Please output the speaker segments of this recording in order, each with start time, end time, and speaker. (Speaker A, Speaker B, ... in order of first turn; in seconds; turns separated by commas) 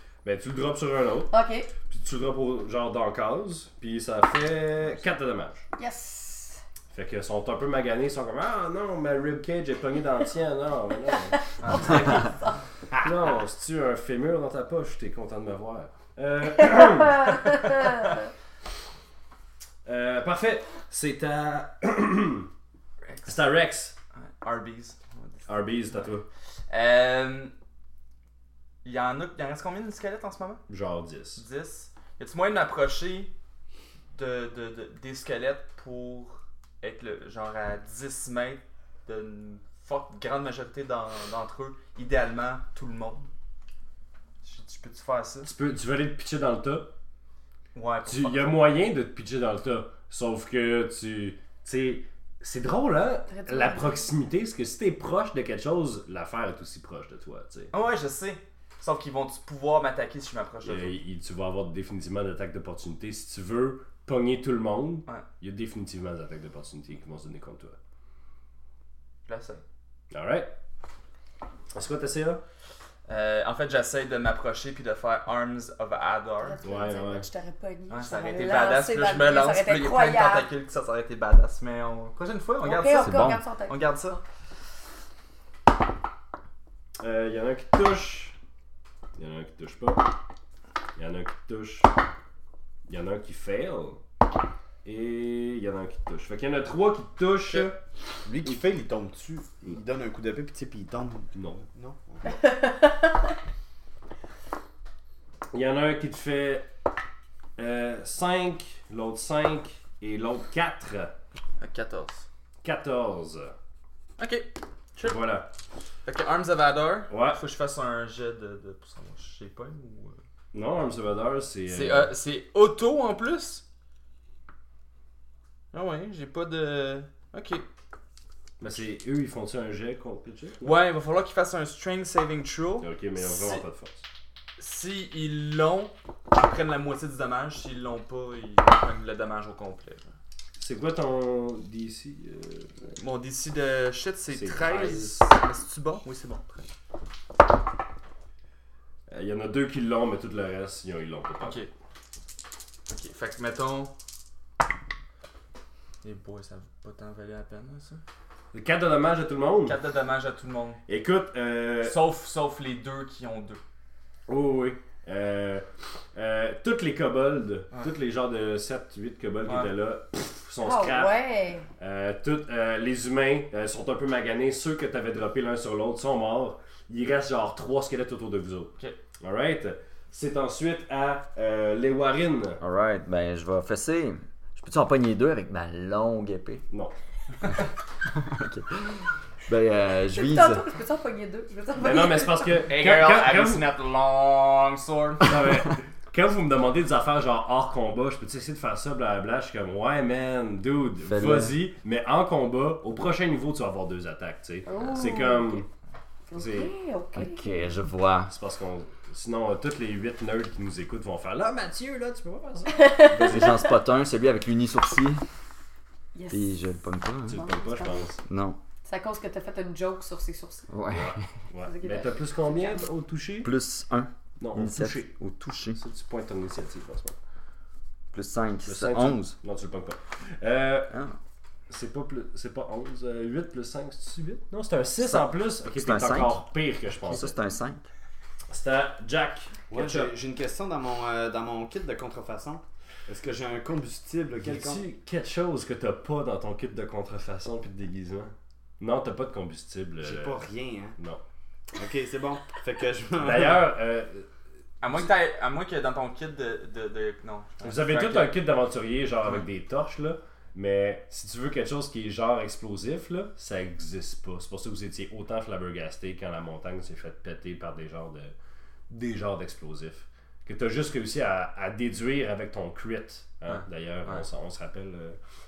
Speaker A: 0.2-1.3, Speaker B: 1.3-1.7, Speaker A: 1.8-5.7, Speaker B: 5.8-6.6, Speaker A: 6.9-12.3, Speaker A: 13.0-18.1, Speaker B: 17.1-18.2, Speaker A: 19.9-22.5, Speaker C: 23.0-23.5, Speaker A: 23.2-23.9, Speaker C: 24.1-26.1, Speaker A: 25.5-26.3, Speaker C: 26.7-27.5, Speaker C: 28.8-30.6, Speaker A: 30.7-31.4, Speaker C: 31.4-33.3, Speaker C: 34.1-43.3, Speaker C: 44.4-45.5, Speaker A: 45.4-46.9, Speaker C: 47.7-48.7, Speaker A: 48.0-57.7, Speaker B: 53.3-54.0, Speaker C: 57.7-60.9, Speaker A: 60.6-67.8, Speaker C: 69.3-69.6, Speaker A: 70.1-70.5, Speaker A: 71.7-72.4, Speaker C: 73.1-76.6, Speaker B: 76.4-80.5, Speaker A: 76.6-77.3, Speaker C: 77.9-84.2, Speaker B: 82.6-84.2, Speaker D: 82.9-83.4, Speaker A: 87.0-88.3, Speaker A: 89.2-90.1, Speaker A: 91.0-91.9, Speaker A: 92.9-94.0, Speaker A: 94.8-97.8, Speaker E: 98.2-102.4, Speaker A: 101.3-101.7, Speaker B: 102.3-103.1, Speaker A: 105.5-106.7, Speaker A: 107.6-111.1, Speaker C: 111.6-112.3, Speaker A: 112.6-113.5, Speaker C: 114.2-115.2, Speaker A: 115.0-115.5, Speaker C: 116.0-120.2, Speaker A: 117.1-117.4, Speaker A: 120.5-122.1, Speaker C: 121.7-123.6, Speaker C: 125.7-127.7, Speaker A: 128.6-130.8, Speaker C: 130.6-133.6, Speaker A: 132.8-134.1, Speaker C: 134.6-140.1, Speaker A: 140.6-143.0, Speaker C: 143.0-146.7, Speaker A: 144.3-145.2, Speaker A: 149.1-151.6, Speaker C: 151.4-151.7, Speaker C: 152.9-153.9, Speaker C: 156.0-158.0, Speaker A: 158.5-159.8, Speaker C: 159.7-160.8, Speaker A: 160.9-162.0, Speaker C: 161.8-163.6, Speaker A: 164.3-171.2, Speaker C: 169.4-169.7, Speaker B: 170.6-171.7, Speaker A: 171.8-182.6, Speaker D: 182.6-186.6, Speaker D: 188.1-190.6, Speaker B: 190.1-192.6, Speaker A: 191.8-193.6, Speaker C: 192.7-195.3, Speaker A: 195.2-205.7, Speaker D: 201.0-201.6, Speaker B: 204.7-205.7, Speaker B: 206.3-207.5, Speaker A: 206.3-206.7, Speaker D: 207.2-208.3, Speaker A: 208.3-213.6, Speaker B: 212.7-213.5, Speaker D: 213.1-215.2, Speaker B: 216.2-216.5, Speaker D: 216.3-217.4, Speaker A: 217.2-218.2, Speaker B: 217.3-218.1, Speaker D: 218.3-218.6, Speaker B: 218.9-220.7, Speaker D: 220.7-221.2, Speaker A: 220.9-223.5, Speaker B: 221.6-222.8, Speaker D: 223.4-225.8, Speaker A: 224.4-225.1, Speaker A: 225.7-227.2, Speaker D: 228.1-229.4, Speaker A: 228.6-230.9, Speaker A: 231.7-237.3, Speaker D: 235.0-236.5, Speaker D: 237.0-237.8, Speaker A: 238.5-240.1, Speaker E: 239.7-244.8, Speaker A: 244.4-250.5, Speaker E: 250.0-251.0, Speaker E: 251.8-253.7, Speaker A: 253.2-254.3, Speaker C: 254.8-258.3, Speaker A: 257.6-268.3, Speaker A: 268.9-275.2, Speaker C: 273.5-274.2